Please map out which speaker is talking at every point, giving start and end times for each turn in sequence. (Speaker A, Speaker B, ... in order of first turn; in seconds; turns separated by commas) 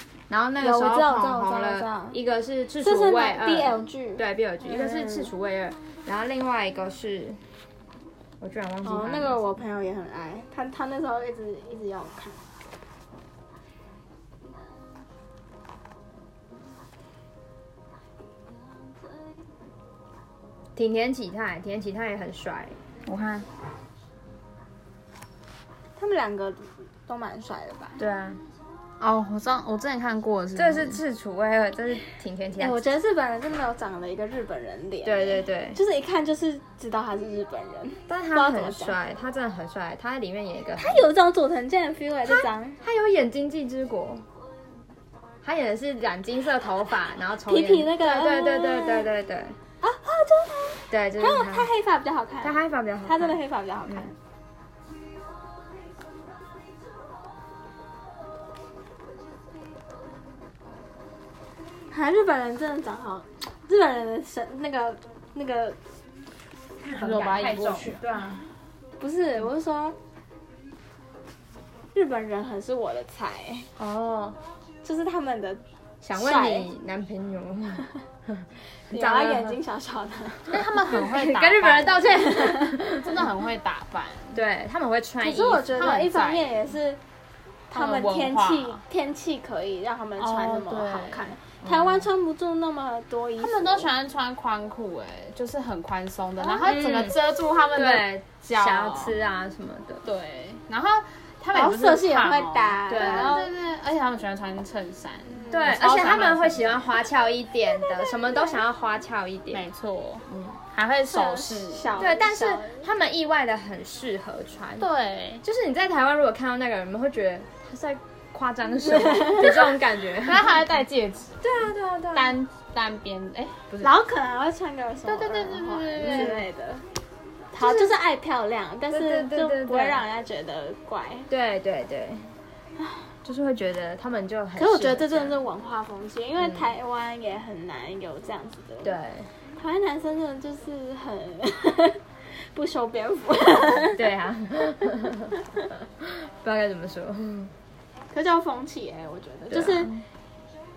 Speaker A: 0.3-7.4, Speaker B: 0.6-2.2, Speaker B: 2.8-5.3, Speaker A: 8.4-9.4, Speaker B: 8.8-12.4, Speaker A: 20.8-23.4, Speaker B: 26.0-28.0, Speaker A: 28.0-28.4, Speaker C: 29.0-31.0, Speaker A: 30.6-32.8, Speaker B: 32.6-39.0, Speaker A: 35.0-35.8, Speaker A: 38.1-41.0, Speaker B: 40.8-42.8, Speaker A: 42.3-44.2, Speaker A: 45.4-49.6, Speaker B: 47.5-49.1, Speaker B: 49.8-54.1, Speaker A: 50.9-51.7, Speaker A: 52.4-54.1, Speaker B: 61.9-65.8, Speaker A: 66.8-68.4, Speaker C: 67.0-68.0, Speaker B: 69.0-70.0, Speaker B: 71.9-73.7, Speaker A: 73.8-74.4, Speaker B: 74.8-76.7, Speaker A: 76.0-79.6, Speaker B: 78.9-80.6, Speaker C: 80.5-82.2, Speaker A: 80.8-83.3, Speaker B: 82.1-82.8, Speaker C: 83.0-84.4, Speaker A: 84.3-85.9, Speaker B: 85.2-87.0, Speaker C: 85.7-86.5, Speaker B: 87.7-93.9, Speaker C: 87.7-88.8, Speaker C: 90.2-91.3, Speaker A: 91.6-92.1, Speaker C: 93.4-99.2, Speaker B: 96.4-96.8, Speaker A: 96.6-97.2, Speaker A: 97.7-100.0, Speaker C: 100.0-106.9, Speaker B: 101.5-103.5, Speaker A: 102.9-103.4, Speaker B: 105.3-106.5, Speaker A: 105.5-109.7, Speaker B: 107.7-108.4, Speaker C: 109.5-112.0, Speaker A: 110.3-110.6, Speaker B: 111.1-112.9, Speaker A: 112.0-114.9, Speaker C: 114.8-115.4, Speaker A: 115.4-120.6, Speaker B: 118.9-119.5, Speaker C: 120.2-121.5, Speaker A: 121.4-122.4, Speaker C: 122.1-123.9, Speaker B: 123.8-126.8, Speaker C: 125.1-126.4, Speaker A: 126.0-126.4, Speaker B: 127.5-131.3, Speaker A: 127.6-127.9, Speaker A: 128.9-130.0, Speaker A: 131.3-132.3, Speaker A: 133.2-135.4, Speaker B: 134.6-138.9, Speaker A: 136.4-136.7, Speaker A: 138.8-139.3, Speaker B: 139.6-144.1, Speaker A: 143.9-147.5, Speaker B: 148.1-149.9, Speaker A: 149.5-150.0